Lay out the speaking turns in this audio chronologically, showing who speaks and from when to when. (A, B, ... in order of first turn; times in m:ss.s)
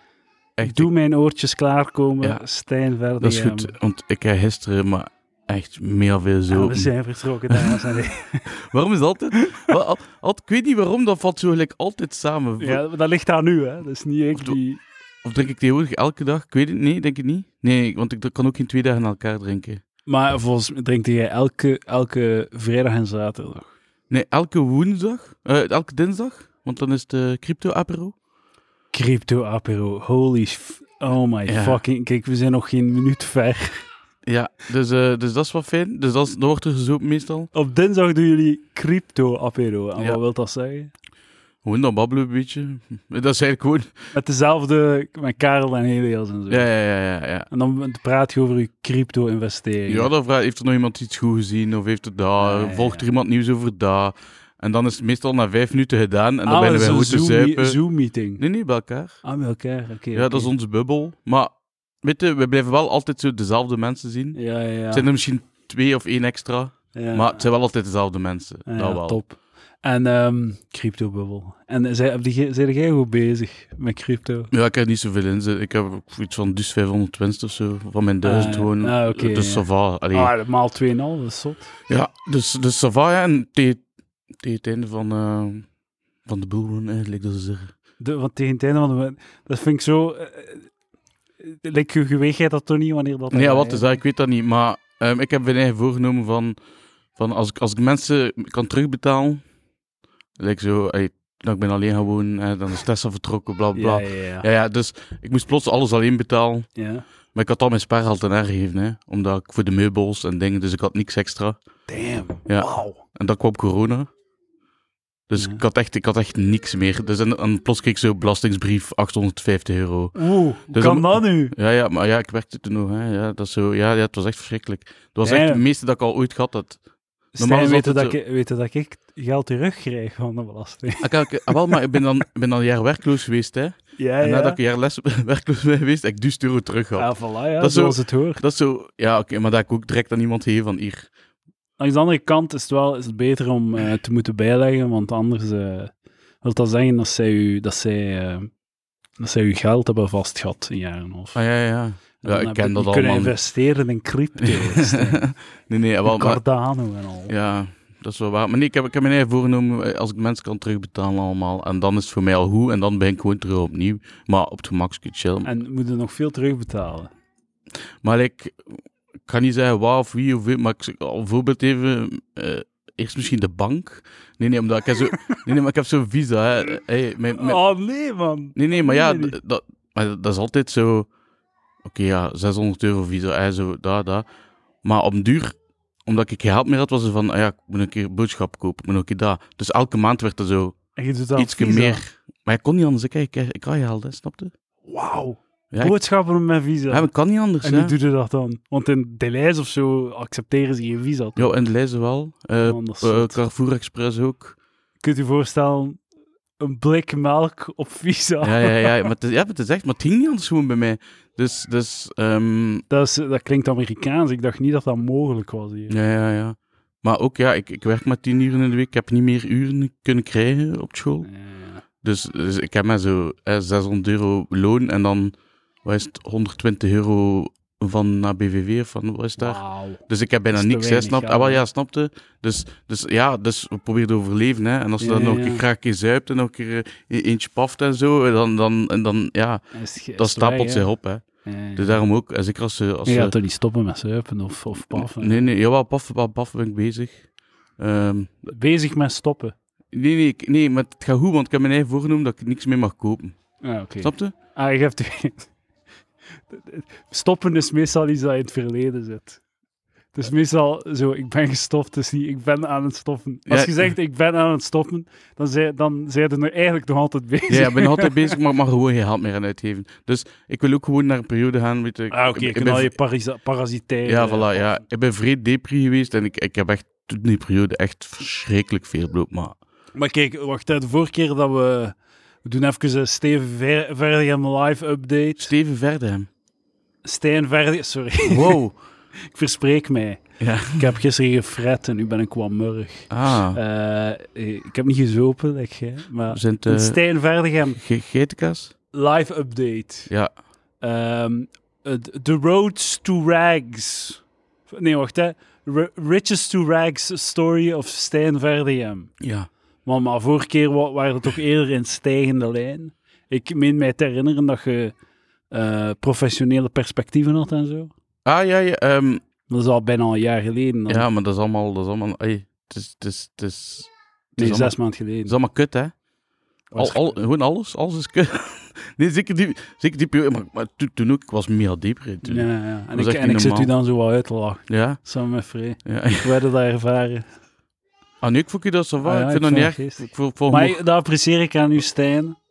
0:00.6-0:00.9 A
0:00.6-0:03.7 B
0:03.2-0:06.9 A
0:06.5-0:08.5 B
0:07.5-0:12.8 A
0:09.4-0:09.6 B
0:12.6-0:14.8 B
0:15.2-0:19.8 A
0:20.1-0:23.7 B
0:24.1-0:28.1 A
0:28.9-0:33.8 B
0:31.5-0:31.8 A
0:34.2-0:37.5 A
0:37.5-0:40.9 B
0:41.6-0:43.9 A
0:44.1-0:46.7 B
0:46.5-0:47.5 A
0:47.5-0:50.1 B
0:49.9-0:57.8 A
0:52.4-0:53.0 B
0:56.4-0:58.4 B
0:58.4-0:59.2 A
0:59.2-1:00.5 B
1:00.1-1:04.4 A
1:04.3-1:05.1 B
1:04.9-1:09.2 A
1:06.9-1:07.4 B
1:08.7-1:14.5 B
1:14.5-1:20.3 A
1:18.2-1:21.7 B
1:21.9-1:23.8 A
1:24.4-1:25.7 A
1:26.2-1:27.7 A
1:28.0-1:30.7 B
1:31.4-1:34.0 B
1:33.3-1:36.6 A
1:37.2-1:39.4 A
1:40.4-1:46.7 A
1:43.7-1:44.4 B
1:46.8-1:47.0 B
1:47.3-1:51.6 A
1:51.9-1:53.0 B
1:52.5-1:54.1 A
1:55.3-2:00.2 A
2:00.1-2:01.5 B
2:00.7-2:06.8 A
2:05.2-2:05.6 B
2:07.3-2:11.8 B
2:07.4-2:08.2 A
2:11.0-2:21.1 A
2:14.0-2:14.6 B
2:17.0-2:18.4 B
2:21.8-2:28.5 B
2:29.2-2:31.4 B
2:31.3-2:33.3 A
2:32.2-2:35.2 B
2:34.4-2:36.4 A
2:36.0-2:37.3 B
2:37.3-2:45.5 A
2:45.4-2:47.1 B
2:48.0-2:57.6 A
2:55.1-2:55.4 B
2:57.3-2:59.4 B
2:58.6-3:01.1 A
3:01.8-3:04.2 A
3:04.8-3:05.5 A
3:06.0-3:10.8 A
3:11.0-3:12.0 B
3:11.4-3:14.5 A
3:14.9-3:17.1 B
3:16.9-3:17.9 A
3:17.6-3:21.5 B
3:21.4-3:24.6 A
3:22.6-3:23.4 B
3:25.0-3:26.0 B
3:26.6-3:29.1 B
3:28.4-3:32.8 A
3:32.9-3:36.0 B
3:35.9-3:41.3 A
3:41.2-3:41.8 B
3:42.0-3:59.6 A
3:49.4-3:51.6 B
3:55.0-3:55.6 B
3:59.7-4:00.9 B
4:00.2-4:01.2 A
4:01.4-4:02.0 B
4:01.8-4:03.3 A
4:03.0-4:05.5 B
4:04.9-4:07.2 A
4:07.8-4:08.5 A
4:08.5-4:09.5 B
4:09.9-4:13.4 A
4:13.6-4:15.5 B
4:14.0-4:14.3 A
4:16.5-4:19.4 B
4:20.1-4:28.4 B
4:23.5-4:23.9 A
4:27.5-4:32.9 A
4:32.1-4:34.8 B
4:34.0-4:39.6 A
4:39.9-4:45.5 B
4:45.4-4:46.3 A
4:47.0-4:48.6 B
4:48.2-4:48.7 A
4:49.2-4:50.2 B
4:50.4-4:50.9 A
4:50.7-4:57.8 B
4:53.1-4:53.6 A
4:56.3-4:57.0 A
4:57.8-4:58.7 A
4:58.9-5:00.1 B
5:00.8-5:09.1 B
5:09.2-5:09.5 A
5:09.8-5:14.9 B
5:15.5-5:17.9 B
5:18.2-5:19.2 A
5:19.5-5:21.0 B
5:20.9-5:24.7 A
5:24.4-5:25.3 B
5:25.2-5:25.9 A
5:26.7-5:27.1 B
5:26.7-5:33.7 A
5:32.2-5:37.3 B
5:34.7-5:35.0 A
5:35.8-5:36.3 A
5:38.2-5:40.8 A
5:39.0-5:42.4 B